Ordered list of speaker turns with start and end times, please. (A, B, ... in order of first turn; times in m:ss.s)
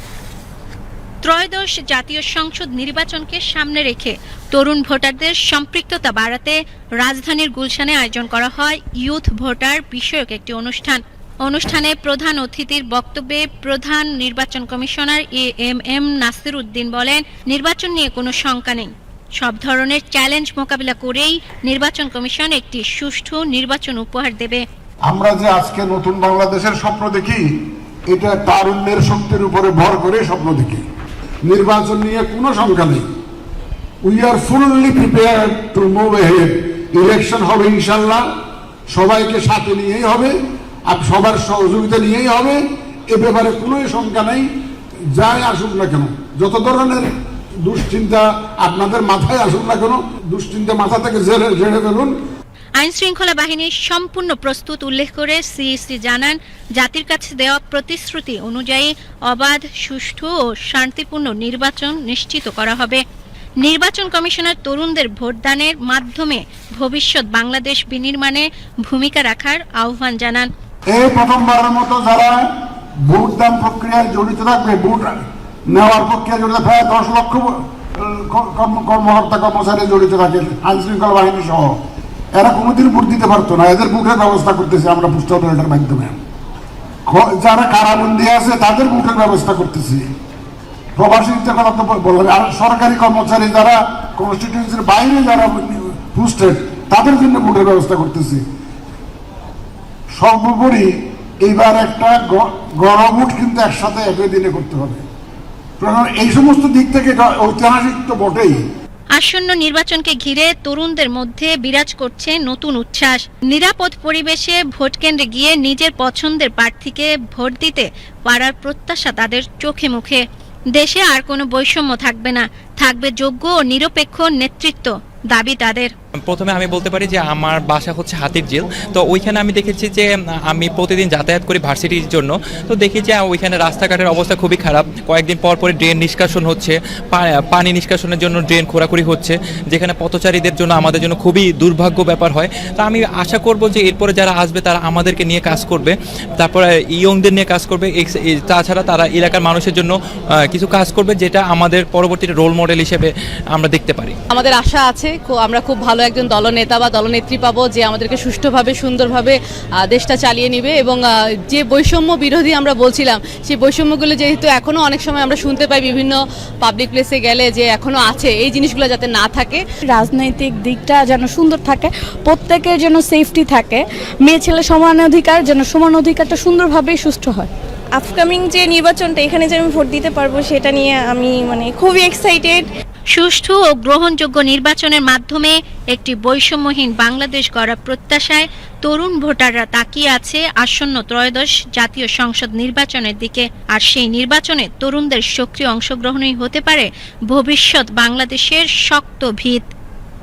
0:01.2-0:24.6 A
0:25.1-0:27.5 B
0:28.1-0:30.8 B
0:31.4-0:33.0 B
0:34.0-0:38.3 B
0:38.9-0:40.3 B
0:40.9-0:44.5 B
0:45.1-0:47.1 B
0:47.6-0:52.1 B
0:52.8-1:03.0 A
1:03.6-1:10.5 A
1:10.9-1:12.4 B
1:13.0-1:21.8 B
1:22.3-1:26.2 B
1:27.1-1:30.0 B
1:31.0-1:38.4 B
1:40.2-1:40.9 B
1:41.4-1:45.0 B
1:45.8-1:48.6 B
1:49.2-2:00.2 A
2:00.7-2:05.9 A
2:06.2-2:29.9 C
2:30.5-2:34.2 C
2:34.3-2:49.6 D
2:49.9-2:57.5 E
2:57.9-3:02.6 F
3:03.1-3:19.7 A